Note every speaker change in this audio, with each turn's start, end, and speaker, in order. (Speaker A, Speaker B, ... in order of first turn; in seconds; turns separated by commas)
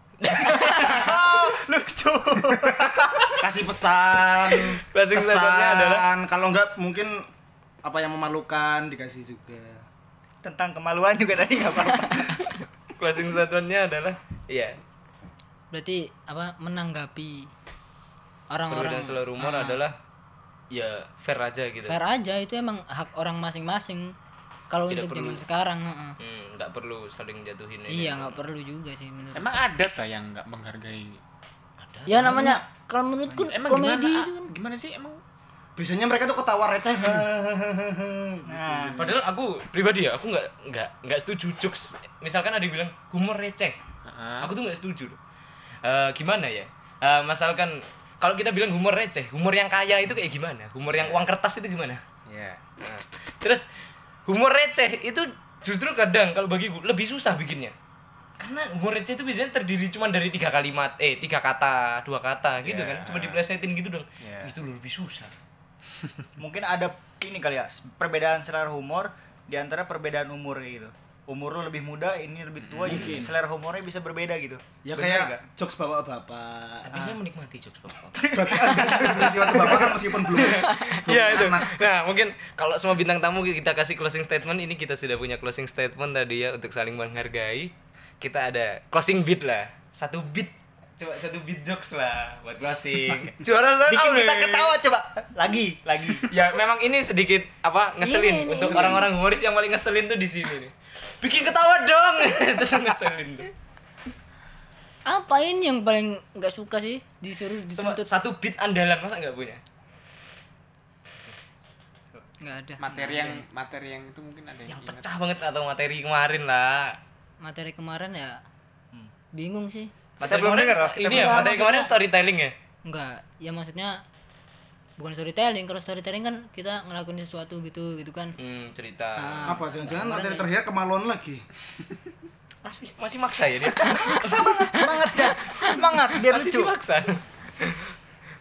Speaker A: 0.2-1.1, Speaker B: 0.3-3.4, Speaker C: 3.0-7.3, Speaker A: 4.9-6.1, Speaker C: 7.8-9.9, Speaker B: 10.4-12.4, Speaker A: 13.0-14.8, Speaker D: 15.7-17.5, Speaker D: 18.5-19.8, Speaker A: 18.7-19.9, Speaker A: 20.7-22.0, Speaker D: 21.9-24.1, Speaker D: 24.7-26.2, Speaker A: 24.9-25.4, Speaker A: 26.2-28.4, Speaker D: 27.9-29.5, Speaker E: 29.4-31.2, Speaker A: 31.8-32.5, Speaker D: 32.1-34.5, Speaker E: 33.5-35.2, Speaker C: 35.8-39.2, Speaker B: 38.5-39.0, Speaker A: 39.0-43.8, Speaker E: 44.1-44.5, Speaker A: 44.4-45.2, Speaker A: 45.9-52.0, Speaker E: 51.0-51.2, Speaker E: 52.3-52.6, Speaker A: 52.8-53.6, Speaker A: 54.3-57.7, Speaker A: 58.4-65.3, Speaker E: 62.6-63.4, Speaker E: 64.2-64.5, Speaker B: 66.4-75.4, Speaker E: 72.6-73.3, Speaker C: 72.8-73.3, Speaker C: 74.8-77.1, Speaker A: 76.9-79.0, Speaker B: 78.2-80.7, Speaker C: 78.3-81.7, Speaker A: 80.6-94.8, Speaker B: 93.9-96.3, Speaker A: 96.2-103.5, Speaker D: 98.0-99.0, Speaker B: 98.7-99.0, Speaker D: 105.1-108.1, Speaker A: 107.8-109.6, Speaker D: 112.4-113.4, Speaker E: 112.8-115.0, Speaker A: 114.7-117.0, Speaker D: 117.4-118.4, Speaker D: 119.3-119.9, Speaker A: 120.2-122.5, Speaker B: 120.2-121.5, Speaker D: 121.0-121.9, Speaker D: 122.9-124.0, Speaker D: 125.0-128.3, Speaker A: 128.4-129.6, Speaker D: 129.2-130.5, Speaker C: 129.5-131.5, Speaker A: 132.7-134.5, Speaker B: 133.7-136.7, Speaker A: 136.2-137.9